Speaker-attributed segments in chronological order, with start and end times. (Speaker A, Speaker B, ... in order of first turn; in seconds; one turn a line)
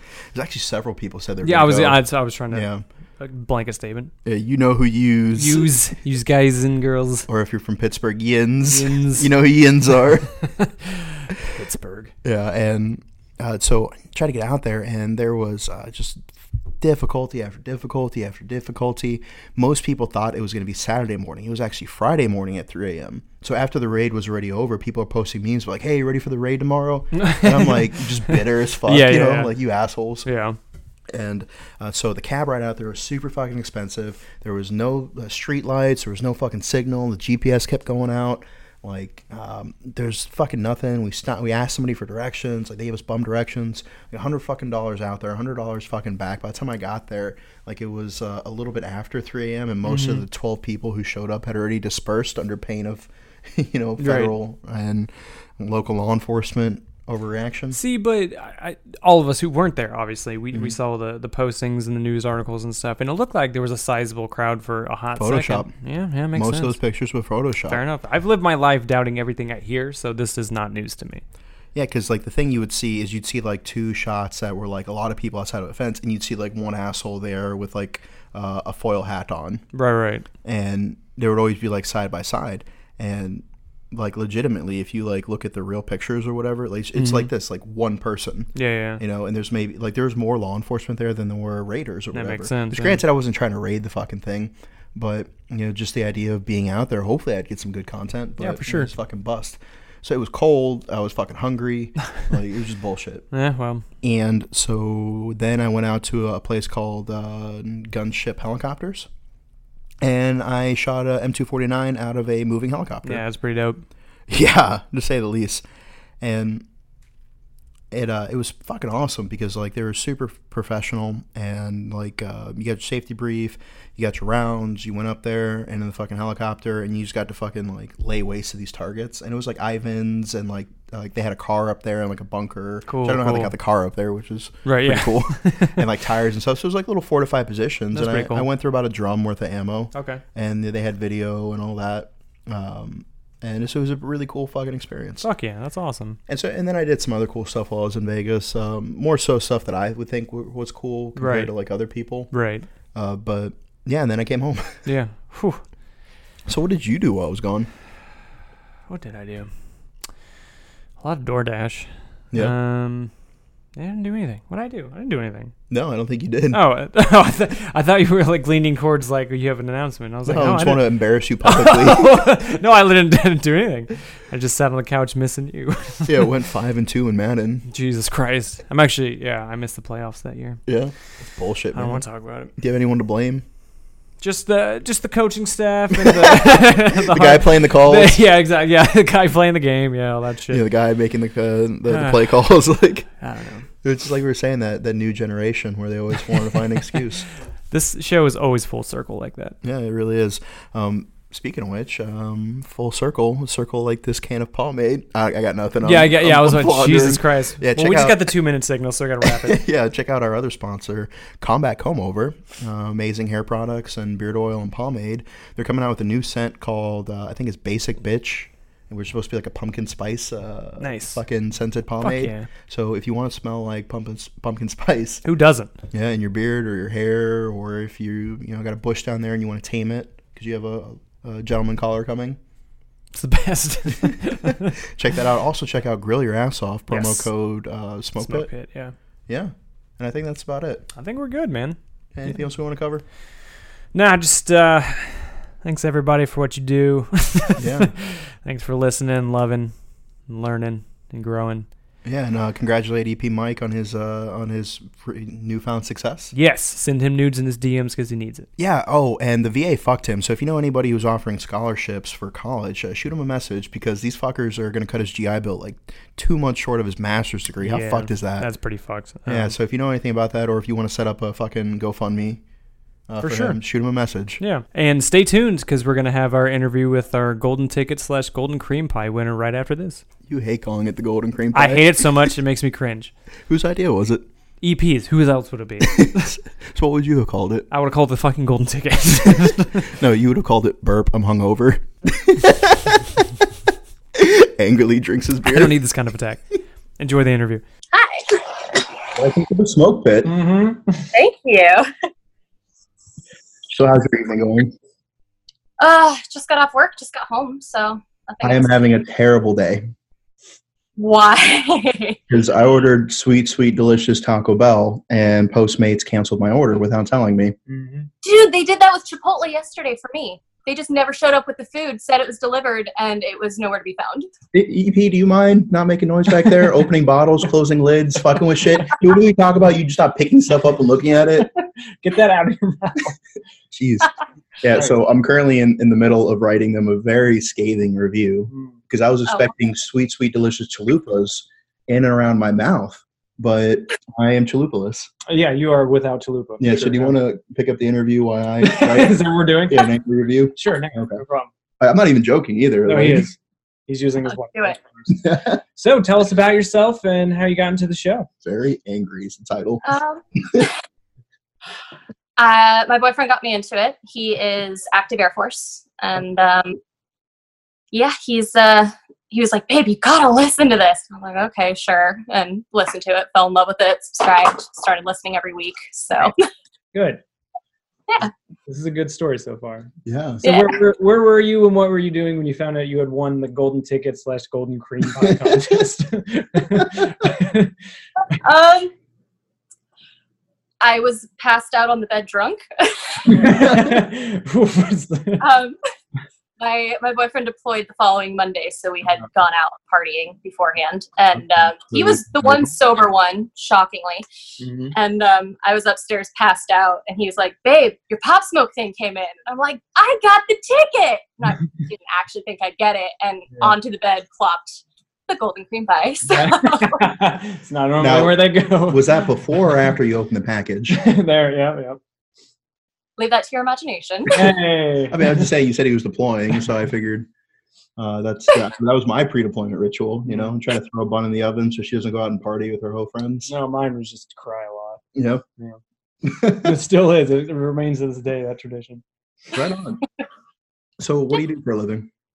Speaker A: 0.3-2.8
Speaker B: 1.4-4.1
Speaker A: 4.2-5.7
Speaker B: 5.3-7.3
Speaker A: 7.3-10.4
Speaker B: 8.7-9.3
Speaker B: 10.6-12.1
Speaker A: 12.2-30.3
Speaker B: 27.1-27.9
Speaker B: 28.8-29.5
Speaker B: 30.2-30.6
Speaker A: 31.1-57.8
Speaker B: 49.9-50.2
Speaker B: 54.0-54.3
Speaker B: 57.7-66.8
Speaker A: 65.1-65.7
Speaker A: 66.3-67.8
Speaker B: 67.7-71.2
Speaker A: 71.7-79.6
Speaker B: 79.7-80.3
Speaker A: 80.4-103.2
Speaker B: 87.0-87.3
Speaker B: 88.5-89.0
Speaker B: 92.1-93.0
Speaker B: 98.4-98.9
Speaker B: 103.3-103.8
Speaker A: 104.0-109.1
Speaker A: 110.0-113.2
Speaker B: 113.0-113.8
Speaker A: 114.3-115.6
Speaker A: 116.2-116.6
Speaker A: 117.9-145.2
Speaker B: 132.9-133.5
Speaker B: 134.6-135.8
Speaker B: 137.9-138.4
Speaker B: 139.9-140.2
Speaker B: 145.2-146.2
Speaker A: 146.3-152.4
Speaker B: 151.2-151.5
Speaker B: 152.3-152.7
Speaker A: 152.9-154.9
Speaker B: 154.8-155.6
Speaker A: 156.4-157.7
Speaker B: 158.9-160.1
Speaker B: 161.0-163.2
Speaker B: 163.7-165.5
Speaker A: 165.7-166.6
Speaker B: 166.5-176.3
Speaker A: 170.2-172.1
Speaker A: 176.1-177.7
Speaker B: 177.7-180.6
Speaker A: 180.7-183.4
Speaker B: 181.7-182.5
Speaker B: 184.2-190.6
Speaker A: 186.0-188.2
Speaker A: 190.5-193.2
Speaker B: 191.9-192.2
Speaker B: 193.2-193.7
Speaker A: 193.8-197.2
Speaker B: 197.7-199.6
Speaker A: 199.6-208.3
Speaker B: 205.8-209.6
Speaker A: 209.2-225.2
Speaker B: 220.8-221.2
Speaker B: 222.0-222.5
Speaker B: 225.2-225.7
Speaker A: 225.9-232.4
Speaker B: 233.1-234.7
Speaker A: 234.8-238.5
Speaker B: 236.9-237.3
Speaker B: 238.2-238.9
Speaker A: 239.3-240.8
Speaker B: 240.9-241.8
Speaker A: 242.1-243.0
Speaker B: 243.9-251.7
Speaker A: 247.6-247.9
Speaker A: 252.0-256.3
Speaker B: 256.3-258.5
Speaker A: 258.6-268.5
Speaker B: 267.6-269.5
Speaker A: 269.2-272.4
Speaker A: 273.1-274.4
Speaker B: 273.2-273.6
Speaker B: 274.4-280.0
Speaker A: 280.3-282.3
Speaker B: 281.5-283.1
Speaker A: 283.5-284.2
Speaker B: 284.6-286.3
Speaker A: 285.8-287.7
Speaker B: 287.7-289.9
Speaker A: 289.9-293.0
Speaker A: 294.1-295.7
Speaker B: 295.4-297.6
Speaker C: 297.9-298.4
Speaker A: 299.1-300.3
Speaker D: 300.2-301.1
Speaker C: 301.1-301.9
Speaker A: 303.7-304.7
Speaker C: 305.8-308.9
Speaker A: 308.4-309.9
Speaker C: 310.9-312.2
Speaker A: 312.3-317.5
Speaker D: 317.7-318.1
Speaker C: 318.2-324.3
Speaker A: 324.5-331.5
Speaker D: 332.0-333.1
Speaker A: 333.7-345.1
Speaker D: 338.5-338.8
Speaker D: 345.3-347.2
Speaker A: 346.6-351.2
Speaker D: 348.6-349.9
Speaker D: 350.6-351.5
Speaker A: 351.8-353.3
Speaker D: 352.9-353.4
Speaker D: 353.9-355.2
Speaker C: 354.3-354.8
Speaker A: 355.1-355.6
Speaker D: 355.7-358.3
Speaker A: 358.4-359.8
Speaker C: 359.8-360.7
Speaker C: 362.4-366.8
Speaker C: 367.9-376.4
Speaker D: 376.9-377.2
Speaker D: 378.6-379.9
Speaker A: 380.0-380.4
Speaker D: 380.4-387.7
Speaker C: 380.4-380.8
Speaker A: 385.2-385.8
Speaker C: 388.4-388.9
Speaker C: 390.8-393.8
Speaker D: 393.2-395.4
Speaker C: 395.4-395.8
Speaker C: 396.6-404.2
Speaker A: 401.9-402.7
Speaker D: 404.6-404.9
Speaker C: 404.9-417.1
Speaker D: 416.3-419.2
Speaker A: 418.0-421.0
Speaker D: 420.9-422.0
Speaker C: 423.2-424.5
Speaker D: 424.3-425.5
Speaker A: 425.1-427.3
Speaker A: 428.0-433.5
Speaker D: 430.3-430.5
Speaker D: 433.4-435.0
Speaker A: 435.1-435.4
Speaker A: 436.2-436.8
Speaker D: 436.5-439.0
Speaker A: 439.5-440.0
Speaker A: 441.0-442.1